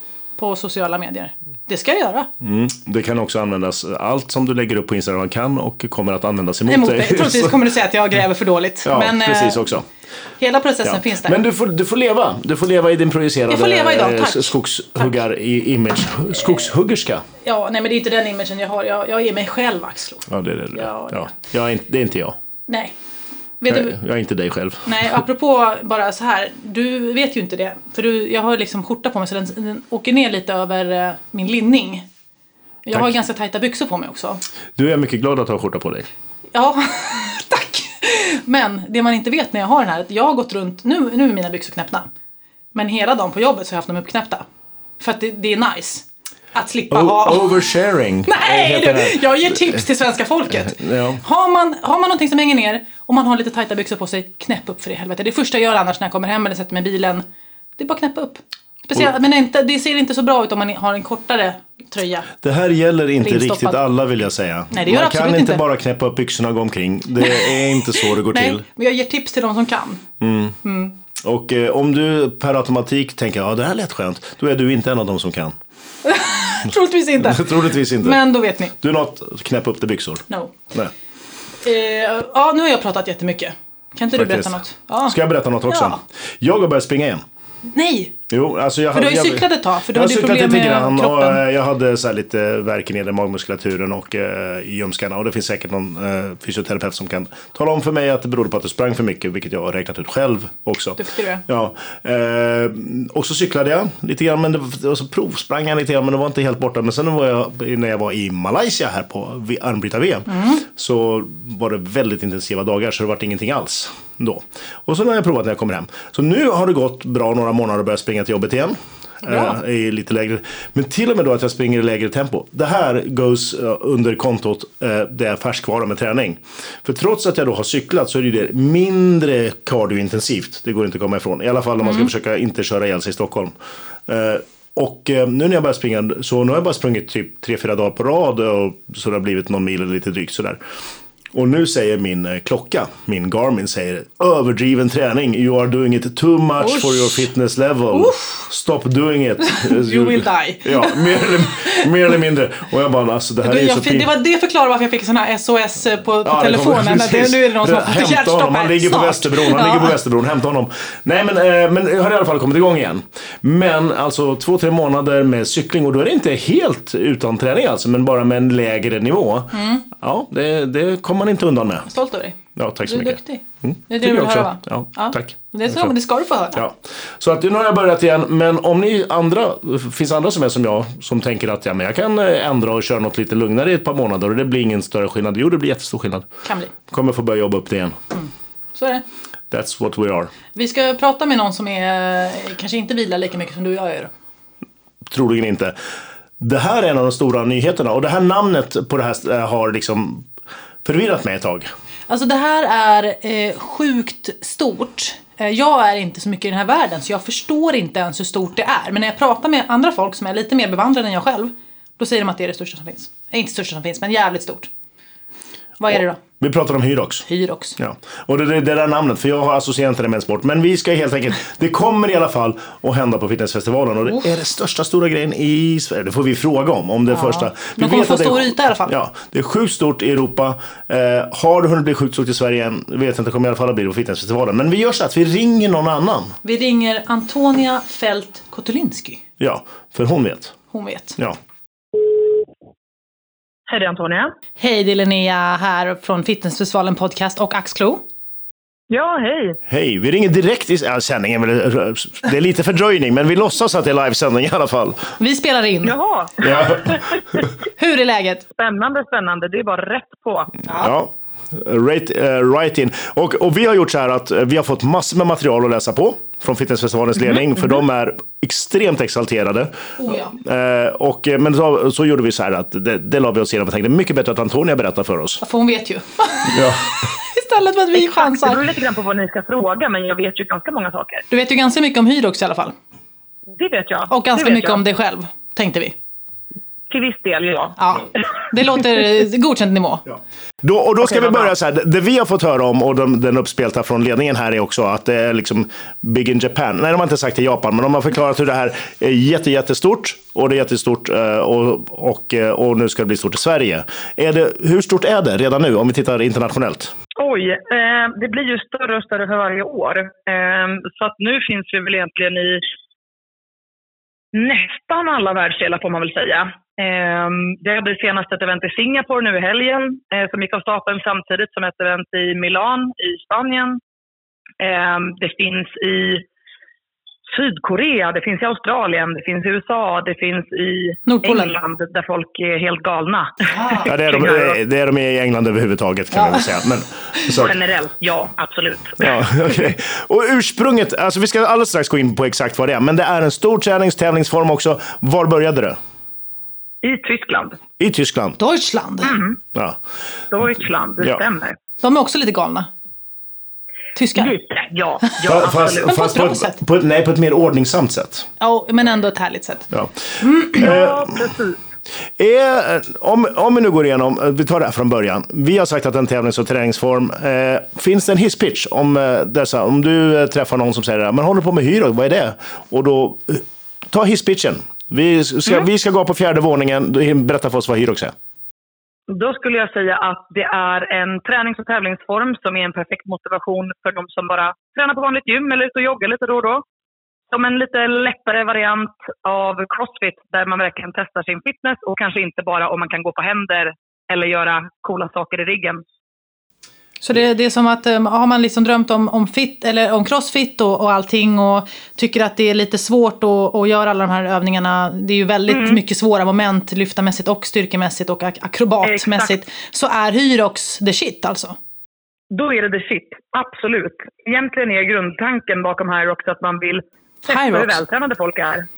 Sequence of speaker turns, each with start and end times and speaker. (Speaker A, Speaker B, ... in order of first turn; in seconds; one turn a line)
Speaker A: 0.4-2.3
Speaker B: 2.4-7.6
Speaker A: 6.7-9.7
Speaker B: 8.8-9.9
Speaker A: 10.4-11.4
Speaker B: 10.8-17.3
Speaker A: 13.5-15.2
Speaker A: 17.4-21.3
Speaker B: 20.3-22.4
Speaker A: 22.7-22.9
Speaker A: 23.6-24.0
Speaker B: 23.7-25.2
Speaker A: 24.9-32.1
Speaker A: 32.9-34.4
Speaker B: 34.8-36.1
Speaker A: 36.5-42.1
Speaker A: 42.7-44.5
Speaker A: 45.0-47.7
Speaker B: 46.9-49.8
Speaker A: 48.2-57.2
Speaker B: 50.6-51.2
Speaker A: 57.8-62.3
Speaker B: 62.4-68.6
Speaker A: 63.2-63.8
Speaker A: 64.7-65.6
Speaker A: 67.2-70.1
Speaker B: 70.2-70.6
Speaker A: 70.6-71.0
Speaker B: 71.2-75.6
Speaker A: 76.0-78.7
Speaker B: 77.2-78.2
Speaker B: 78.7-80.9
Speaker A: 80.3-80.6
Speaker A: 81.6-86.0
Speaker B: 84.1-87.2
Speaker A: 87.7-88.2
Speaker B: 88.3-133.5
Speaker A: 88.9-91.4
Speaker A: 101.0-101.4
Speaker A: 110.3-110.6
Speaker A: 119.3-119.6
Speaker B: 134.1-140.6
Speaker B: 141.3-154.1
Speaker A: 146.6-147.3
Speaker A: 147.9-148.5
Speaker A: 149.4-152.1
Speaker A: 153.4-160.0
Speaker B: 156.2-171.9
Speaker A: 169.5-169.9
Speaker A: 171.9-176.6
Speaker B: 172.6-175.9
Speaker B: 176.6-186.3
Speaker A: 186.4-186.7
Speaker B: 186.9-188.0
Speaker A: 188.1-189.1
Speaker B: 189.5-190.3
Speaker A: 190.5-194.1
Speaker B: 195.1-195.8
Speaker B: 196.4-200.3
Speaker B: 200.8-201.7
Speaker A: 202.1-214.7
Speaker A: 215.8-216.2
Speaker B: 215.9-217.3
Speaker A: 217.3-217.8
Speaker B: 217.8-236.4
Speaker A: 227.1-228.9
Speaker A: 236.4-239.2
Speaker B: 239.4-240.6
Speaker A: 240.7-241.2
Speaker C: 243.7-244.3
Speaker A: 244.6-248.0
Speaker C: 248.9-249.6
Speaker B: 249.7-255.1
Speaker A: 255.2-255.9
Speaker C: 255.8-257.5
Speaker B: 256.4-257.4
Speaker A: 257.8-258.4
Speaker C: 258.6-260.6
Speaker A: 260.7-260.9
Speaker B: 260.7-275.4
Speaker C: 267.3-267.6
Speaker A: 270.0-270.3
Speaker A: 275.4-278.6
Speaker B: 276.5-277.0
Speaker C: 278.0-281.3
Speaker A: 281.3-282.7
Speaker C: 283.5-284.8
Speaker A: 284.1-285.9
Speaker C: 286.9-288.3
Speaker A: 287.8-290.1
Speaker B: 290.6-306.9
Speaker A: 291.1-291.5
Speaker C: 307.2-312.6
Speaker C: 314.3-323.8
Speaker C: 324.6-326.2
Speaker C: 327.3-334.6
Speaker A: 331.1-331.6
Speaker A: 333.5-333.9
Speaker B: 333.9-337.6
Speaker A: 336.2-336.4
Speaker C: 337.3-339.2
Speaker B: 339.0-345.8
Speaker C: 346.8-347.6
Speaker B: 347.8-348.4
Speaker A: 348.4-349.2
Speaker C: 349.0-349.4
Speaker B: 349.5-349.8
Speaker C: 350.3-351.6
Speaker A: 351.8-352.7
Speaker A: 353.9-354.3
Speaker C: 354.1-355.9
Speaker B: 355.2-358.3
Speaker A: 355.9-356.6
Speaker A: 358.4-359.7
Speaker B: 359.7-361.2
Speaker A: 360.2-360.7
Speaker C: 360.6-361.6
Speaker B: 362.2-378.1
Speaker C: 379.1-386.6
Speaker C: 387.3-395.8
Speaker A: 397.0-411.6
Speaker C: 405.5-405.8
Speaker C: 408.8-409.3
Speaker C: 412.3-418.7
Speaker A: 417.3-417.8